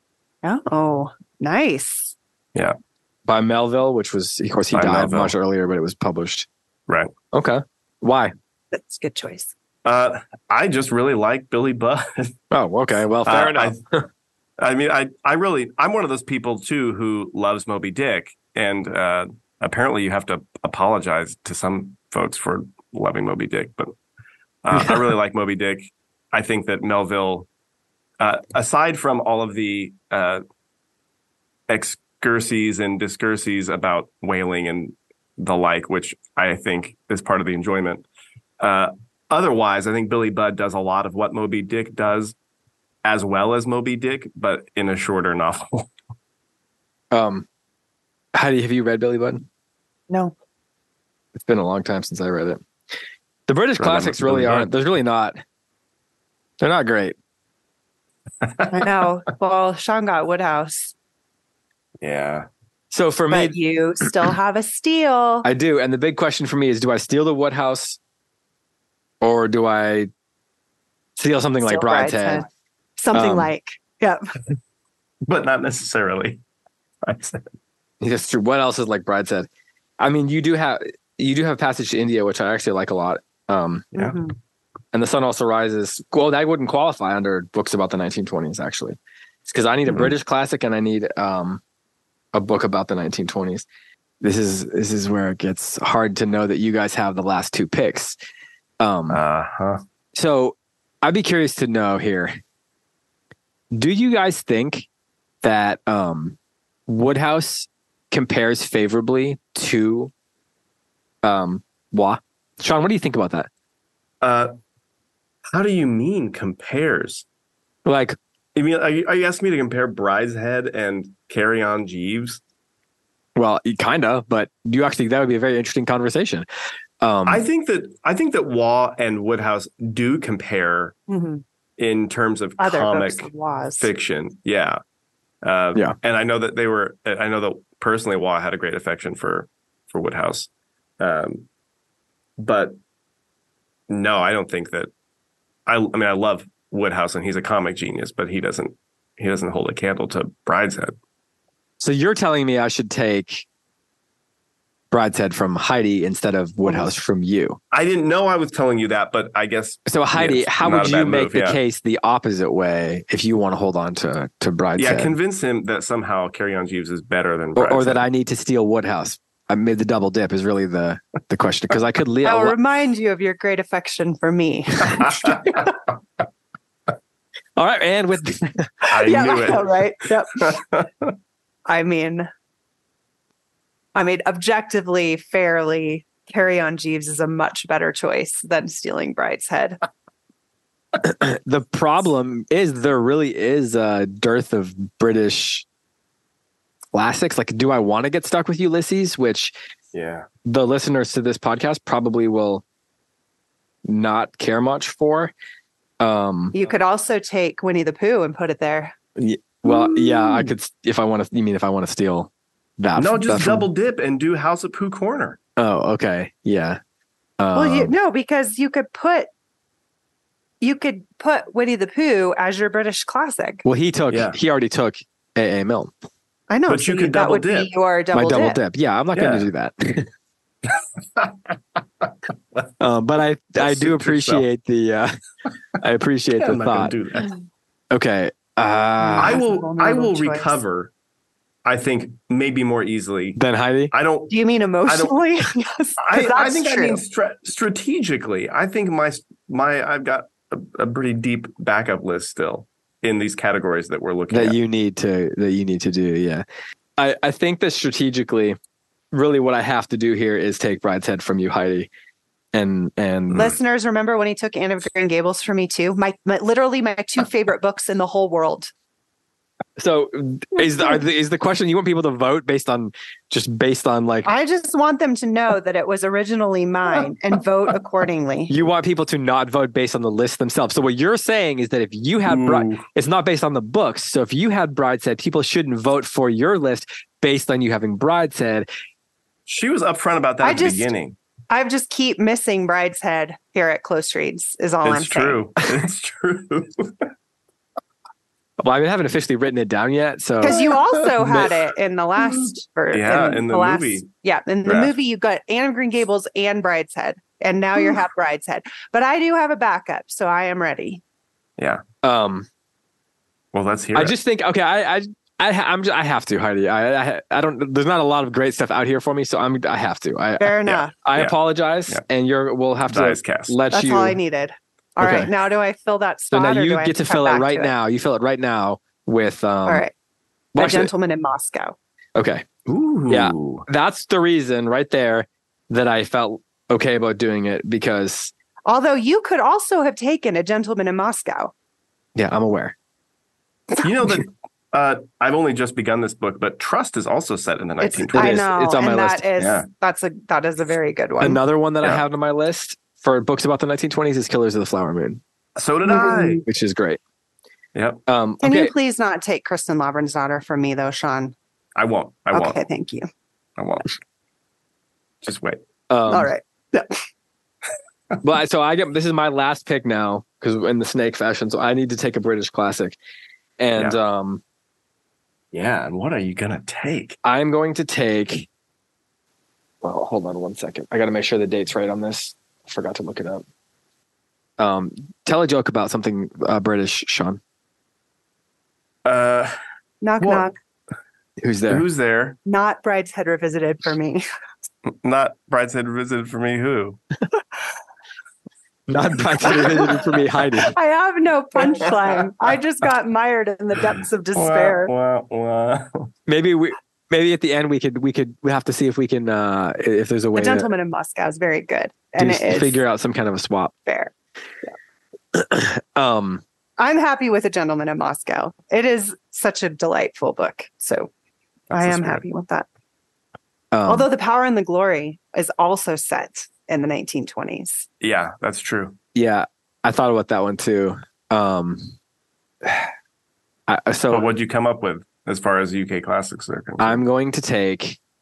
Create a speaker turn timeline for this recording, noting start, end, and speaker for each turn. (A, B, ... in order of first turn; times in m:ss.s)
0:00.4-0:02.2 A
0:03.3-0:06.5 B
0:04.7-0:05.3 C
0:07.3-0:08.3 B
0:08.7-0:09.5 A
0:09.8-0:12.3 C
0:12.5-0:14.1 B
0:13.3-0:13.8 C
0:14.6-0:23.9 C
0:24.6-0:27.5 C
0:28.2-0:30.4 C
0:31.7-0:38.1 C
0:38.6-0:42.4 C
0:43.0-0:45.9 C
0:47.1-0:47.5 B
0:48.4-0:49.4 B
0:51.4-0:52.6 B
0:53.5-0:55.4 B
0:53.8-0:54.7 C
0:56.6-0:57.2 B
0:58.7-1:00.9 A
1:02.0-1:02.5 C
1:02.9-1:03.6 B
1:03.3-1:05.5 A
1:05.4-1:08.0 B
1:09.2-1:10.1 B
1:11.2-1:12.5 B
1:11.6-1:12.5 A
1:13.0-1:14.4 A
1:13.1-1:13.5 B
1:15.2-1:16.4 C
1:17.0-1:17.5 C
1:18.0-1:19.5 B
1:20.0-1:23.9 B
1:24.0-1:24.3 A
1:24.9-1:31.6 B
1:32.3-1:33.7 B
1:34.2-1:38.2 B
1:38.8-1:39.2 B
1:39.1-1:39.8 C
1:40.1-1:42.4 B
1:43.7-1:44.9 B
1:45.4-1:46.4 B
1:46.9-1:50.1 B
1:51.2-1:53.5 B
1:54.2-1:54.5 C
1:55.5-1:57.2 C
1:57.8-1:58.2 B
1:58.6-2:02.4 C
2:03.4-2:06.5 B
2:07.0-2:07.4 B
2:07.3-2:11.0 C
2:11.1-2:11.4 A
2:11.8-2:14.8 C
2:12.6-2:13.9 A
2:15.4-2:21.5 C
2:22.4-2:22.8 C
2:23.9-2:24.9 C
2:25.7-2:31.0 C
2:31.8-2:33.5 B
2:34.9-2:37.6 B
2:36.6-2:36.9 A
2:37.7-2:41.6 C
2:39.9-2:45.1 B
2:44.8-2:48.0 C
2:47.6-2:52.6 B
2:52.2-2:55.6 A
2:54.9-2:55.6 C
2:57.6-2:58.9 B
2:58.9-2:59.7 C
2:58.9-3:00.6 A
3:00.4-3:01.1 C
3:01.7-3:02.3 A
3:04.0-3:09.8 A
3:11.0-3:15.6 B
3:16.9-3:19.5 B
3:19.9-3:20.3 C
3:20.4-3:22.6 B
3:23.9-3:25.3 B
3:26.0-3:26.6 B
3:26.5-3:29.0 A
3:29.2-3:33.7 B
3:29.9-3:30.5 A
3:33.0-3:35.4 C
3:35.6-3:36.8 B
3:37.4-3:37.9 B
3:37.6-3:39.3 A
3:40.6-3:43.6 A
3:43.6-3:45.9 B
3:44.1-3:44.4 C
3:46.5-3:48.6 A
3:46.7-3:47.7 C
3:48.1-3:50.1 B
3:49.2-3:49.5 C
3:50.7-3:52.1 C
3:52.8-3:55.2 B
3:53.6-3:54.4 C
3:55.8-3:57.0 B
3:56.4-3:57.3 C
3:57.9-3:59.4 B
3:59.0-4:00.6 A
3:59.2-4:00.9 C
4:01.6-4:03.4 C
4:03.4-4:03.9 B
4:03.9-4:04.4 C
4:04.3-4:07.0 A
4:04.9-4:05.2 C
4:06.0-4:14.6 C
4:14.3-4:16.4 B
4:17.0-4:18.6 B
4:19.1-4:21.9 B
4:22.5-4:23.5 B
4:23.3-4:28.7 A
4:29.8-4:34.3 B
4:34.3-4:38.5 A
4:38.5-4:48.7 B
4:42.3-4:42.8 C
4:49.5-4:51.2 C
4:50.4-4:50.9 A
4:51.5-4:55.5 A
4:54.8-4:57.1 C
4:58.6-5:00.8 B
5:00.4-5:11.0 A
5:02.9-5:04.1 C
5:04.6-5:04.9 C
5:12.0-5:12.5 B
5:13.5-5:14.2 C
5:14.0-5:24.2 B
5:20.4-5:20.9 A
5:20.7-5:21.4 C
5:22.9-5:23.6 C
5:23.7-5:27.7 A
5:25.0-5:25.3 B
5:26.3-5:29.9 B
5:29.7-5:29.9 A
5:30.6-5:30.9 B
5:30.6-5:31.8 A
5:32.2-5:32.5 B
5:32.7-5:33.6 C
5:33.1-5:38.3 B
5:38.7-5:41.5 A
5:42.2-5:42.8 B
5:43.8-5:48.5 C
5:47.8-5:51.4 A
5:48.1-5:49.2 B
5:49.4-5:49.7 C
5:51.2-5:55.2 B
5:55.6-5:56.4 C
5:55.9-5:56.4 A
5:56.4-5:57.0 B
5:57.8-5:58.0 C
5:58.1-5:58.7 B
5:58.4-6:01.3 A
6:01.8-6:02.6 C
6:02.3-6:03.1 A
6:03.6-6:03.8 C
6:05.2-6:05.6 C
6:05.9-6:06.3 B
6:06.1-6:07.0 A
6:08.2-6:13.0 B
6:13.6-6:14.4 B
6:15.5-6:17.2 C
6:17.2-6:18.5 B
6:19.8-6:23.4 B
6:24.6-6:27.4 B
6:29.0-6:29.5 C
6:30.0-6:30.5 A
6:30.2-6:30.5 C
6:31.4-6:31.8 B
6:31.7-6:32.4 C
6:32.4-6:34.2 A
6:34.9-6:37.0 C
6:38.9-6:40.8 B
6:39.4-6:39.8 C
6:39.4-6:40.0 A
6:40.7-6:44.9 A
6:41.6-6:42.2 C
6:44.3-6:46.1 C
6:46.3-6:50.7 B
6:50.3-6:52.8 A
6:52.2-6:53.7 B
6:53.9-6:54.1 A
6:55.3-6:56.4 B
6:56.8-7:01.1 A
7:01.7-7:02.2 C
7:01.7-7:02.7 A
7:03.7-7:04.1 B
7:03.9-7:07.9 A
7:08.0-7:09.0 C
7:09.1-7:11.9 B
7:13.7-7:14.3 B
7:14.1-7:17.0 C
7:16.8-7:18.0 B